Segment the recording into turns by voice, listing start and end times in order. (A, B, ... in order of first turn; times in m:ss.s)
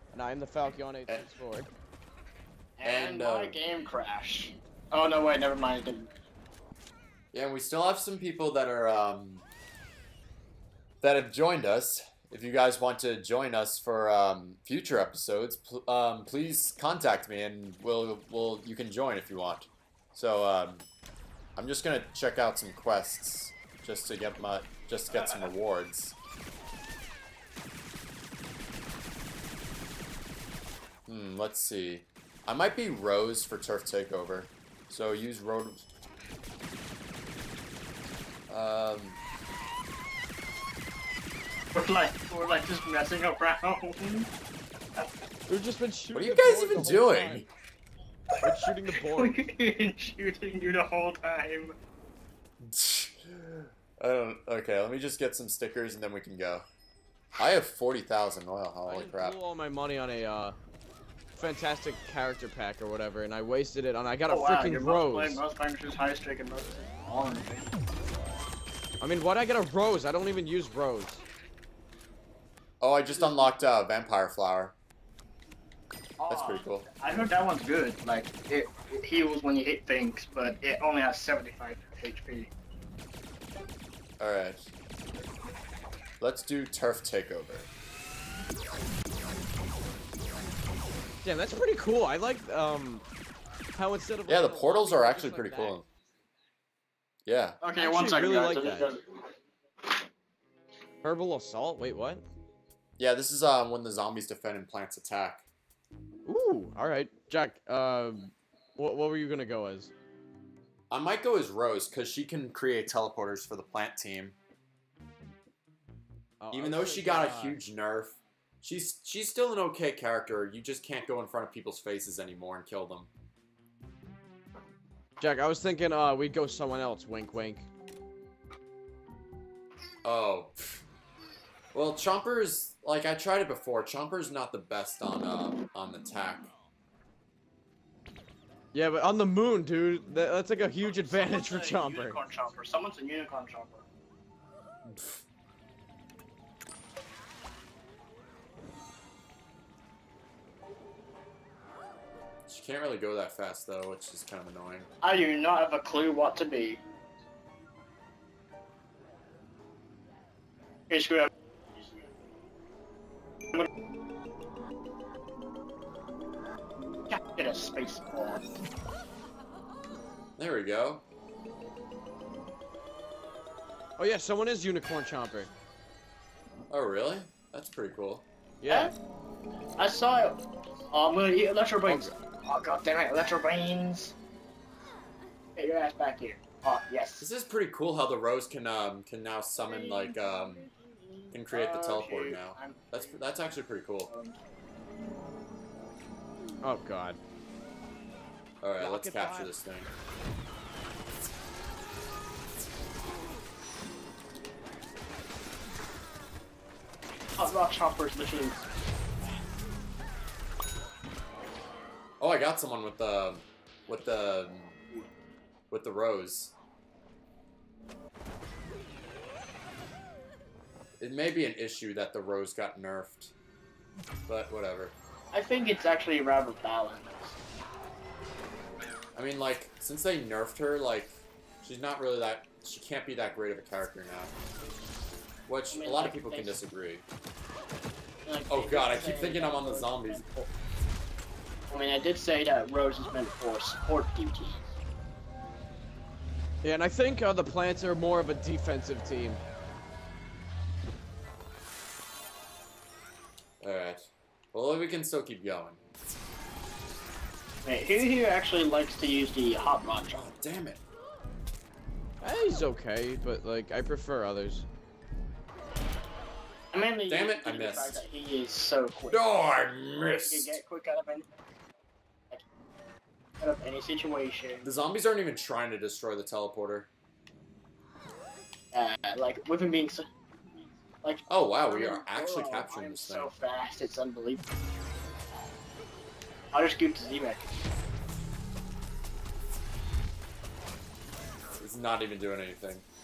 0:00.1-0:01.7 A
0:02.8-0:06.1 B
0:02.8-0:03.6 C
0:07.3-0:09.4 C
0:11.0-0:20.8 C
0:21.6-0:26.2 C
0:31.1-0:35.9 C
0:38.5-0:39.2 C
0:41.7-0:44.3 B
0:45.5-0:47.4 A
0:46.1-0:47.5 C
0:48.3-0:51.8 B
0:48.4-0:49.4 A
0:52.6-0:56.6 C
0:57.4-0:59.4 C
0:58.8-1:00.6 A
1:01.4-1:05.4 A
1:04.3-1:07.7 B
1:09.0-1:11.2 A
1:12.8-1:14.7 C
1:13.2-1:13.6 B
1:16.2-1:22.5 B
1:16.3-1:16.9 C
1:24.2-1:24.7 C
1:26.2-1:27.7 C
1:31.2-1:33.0 A
1:33.7-1:35.8 A
1:34.3-1:35.8 C
1:37.2-1:37.6 C
1:37.6-1:39.2 B
1:37.8-1:38.9 A
1:41.0-1:42.2 A
1:43.0-1:45.4 C
1:46.2-1:49.9 A
1:50.9-1:54.4 C
1:56.4-1:57.6 A
1:56.5-2:03.1 C
2:05.2-2:07.6 A
2:10.0-2:10.8 C
2:11.7-2:16.5 C
2:18.7-2:22.2 A
2:20.8-2:23.8 B
2:24.8-2:25.2 C
2:32.5-2:34.9 C
2:35.0-2:36.8 B
2:40.9-2:41.3 B
2:47.1-2:48.4 B
2:50.4-2:51.0 C
2:54.0-2:55.5 A
2:56.7-2:58.2 C
2:58.6-2:58.9 A
2:58.7-2:58.9 B
2:59.8-3:00.4 B
3:00.9-3:04.1 B
3:01.9-3:02.1 A
3:05.6-3:07.3 B
3:07.2-3:10.6 C
3:11.3-3:14.1 C
3:11.5-3:13.2 B
3:14.1-3:14.4 B
3:16.6-3:17.2 A
3:18.6-3:19.9 C
3:18.8-3:19.5 A
3:27.4-3:28.6 B
3:32.2-3:34.8 C
3:35.7-3:36.5 C
3:41.0-3:43.3 C
3:44.3-3:44.9 C
3:45.3-3:47.4 B
3:49.1-3:54.3 C
3:55.5-3:57.0 C
3:55.7-3:56.6 B
3:58.2-4:00.5 B
3:58.5-4:00.2 C
4:01.7-4:04.7 B
4:06.6-4:09.4 A
4:13.6-4:15.8 C
4:17.6-4:20.2 B
4:20.1-4:20.8 C
4:22.2-4:24.6 A
4:26.7-4:31.2 B
4:27.1-4:28.0 C
4:29.1-4:30.6 C
4:33.4-4:34.7 B
4:34.6-4:36.9 C
4:38.7-4:40.1 B
4:41.0-4:44.4 B
4:41.3-4:43.3 C
4:46.5-4:47.4 B
4:51.6-4:52.8 C